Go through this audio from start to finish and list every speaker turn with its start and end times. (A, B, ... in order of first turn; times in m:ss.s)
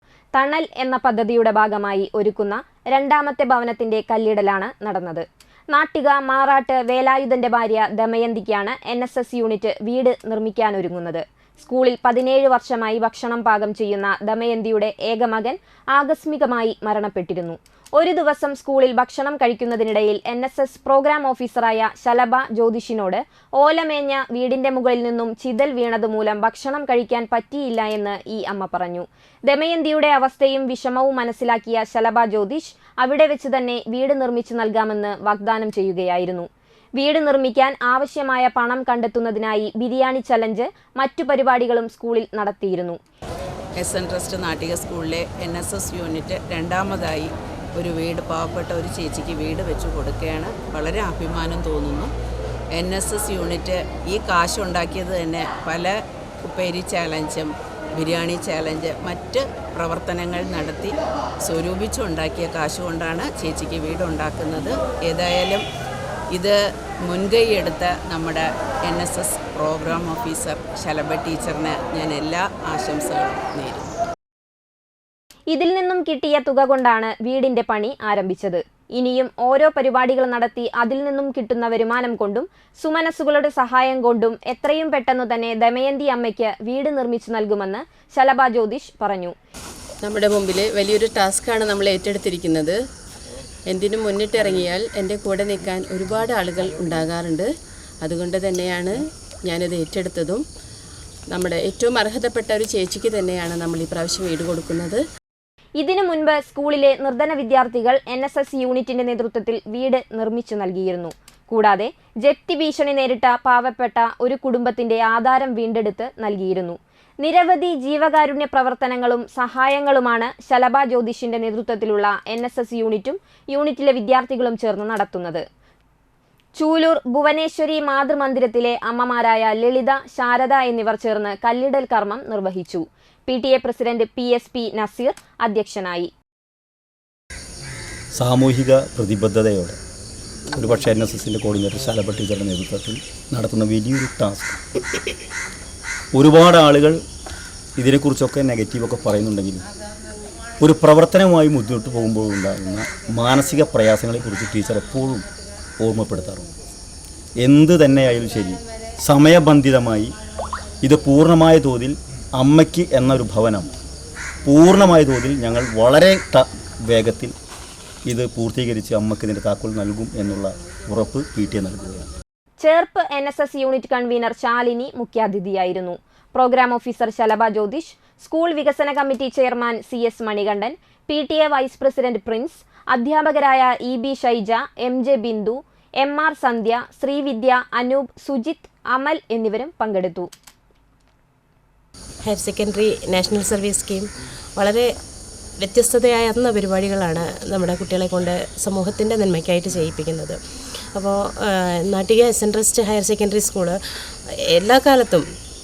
0:00.4-0:43.0 A
0:43.8-0:52.1 B
0:52.7-1:05.6 B
1:06.3-1:13.9 B
1:15.5-1:29.3 A
1:30.0-1:32.8 C
1:33.7-1:37.5 C
1:38.0-1:40.4 C
1:41.3-1:45.0 C
1:45.8-2:05.4 A
2:06.6-2:16.1 A
2:18.2-2:19.8 D
2:20.5-2:24.6 D
2:26.1-2:27.0 D
2:27.8-2:29.6 D
2:30.6-2:35.2 D
2:35.8-2:36.5 D
2:37.4-2:40.1 D
2:40.8-2:43.7 D
2:44.4-2:47.3 D
2:48.1-2:52.1 D
2:52.6-3:10.3 A
3:12.3-3:14.9 E
3:15.6-3:20.4 E
3:20.9-3:25.2 E